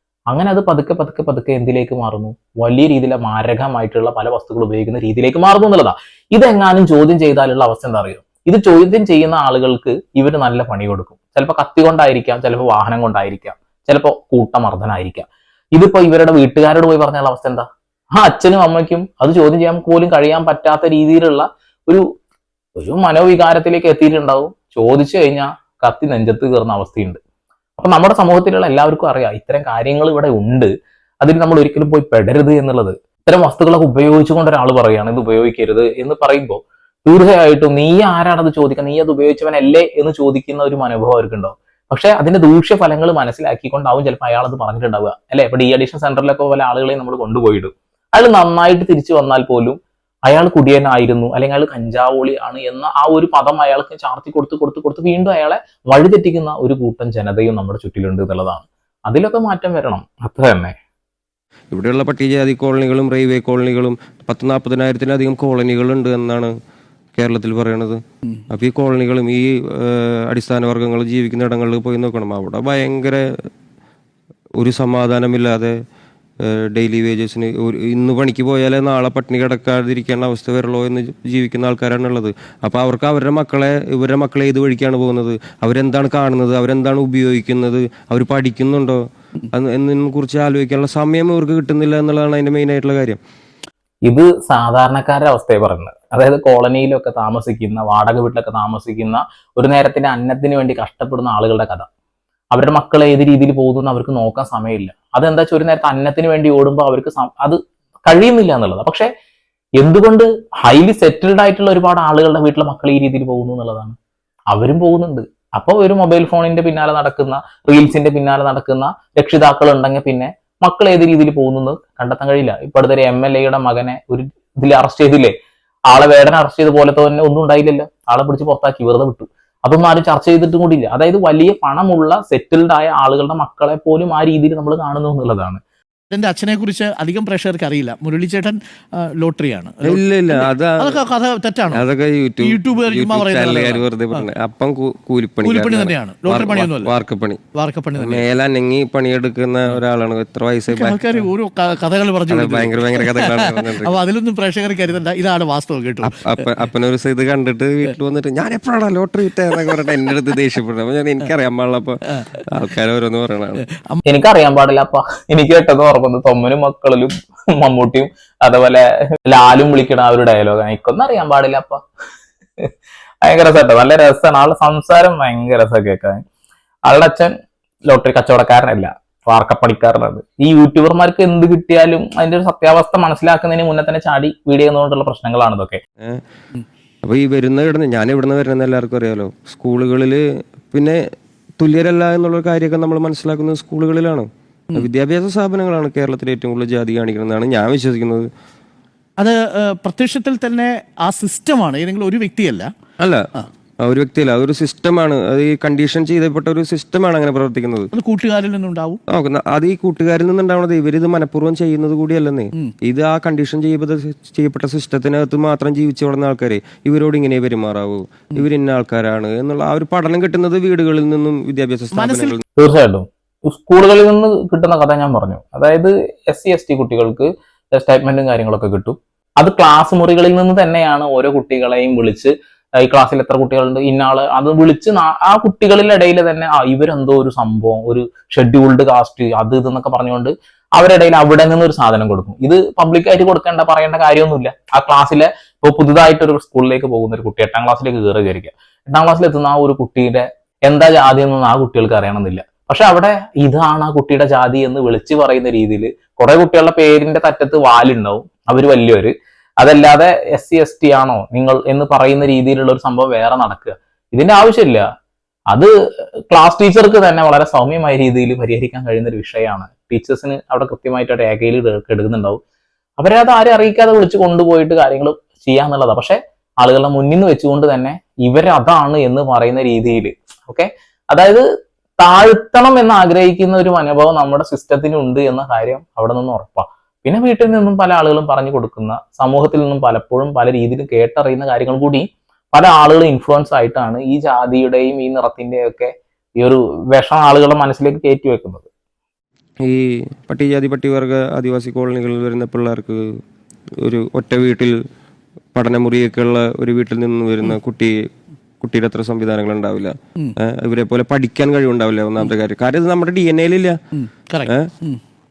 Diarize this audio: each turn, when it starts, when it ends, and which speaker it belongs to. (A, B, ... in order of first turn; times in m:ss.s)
0:00.3-0:15.2 A
0:15.8-0:17.6 A
0:18.2-0:22.0 A
0:22.8-0:27.2 A
0:27.8-0:30.7 A
0:31.2-1:00.7 A
1:01.7-1:06.5 B
1:07.2-1:13.2 B
1:14.6-1:15.7 B
1:16.4-1:29.0 B
1:29.5-1:33.2 B
1:34.1-1:41.9 A
1:42.5-1:49.1 A
1:49.8-1:54.0 A
1:54.5-2:05.3 A
2:05.9-2:15.6 A
2:16.1-2:21.8 C
2:19.8-2:21.0 B
2:21.7-2:27.4 B
2:22.4-2:24.2 C
2:25.4-2:26.9 C
2:27.6-2:28.2 C
2:28.0-2:31.0 B
2:30.7-2:36.3 C
2:32.3-2:34.0 B
2:36.0-2:43.6 B
2:43.7-2:44.0 C
2:44.0-2:51.8 A
2:53.2-2:56.2 A
2:56.9-2:57.3 A
2:57.9-3:05.8 A
3:07.0-3:11.0 B
3:11.6-3:18.2 B
3:19.2-3:22.7 C
3:23.8-3:27.9 B
3:27.9-3:29.0 C
3:29.1-3:42.4 B
3:41.9-3:42.4 C
3:42.6-4:24.8 A
4:26.3-4:32.4 A
4:33.0-4:41.4 A
4:42.0-4:58.6 A
4:59.6-5:03.0 B
5:03.8-5:04.7 B
5:05.5-5:07.9 B
5:08.6-5:13.8 B
5:13.9-5:15.0 C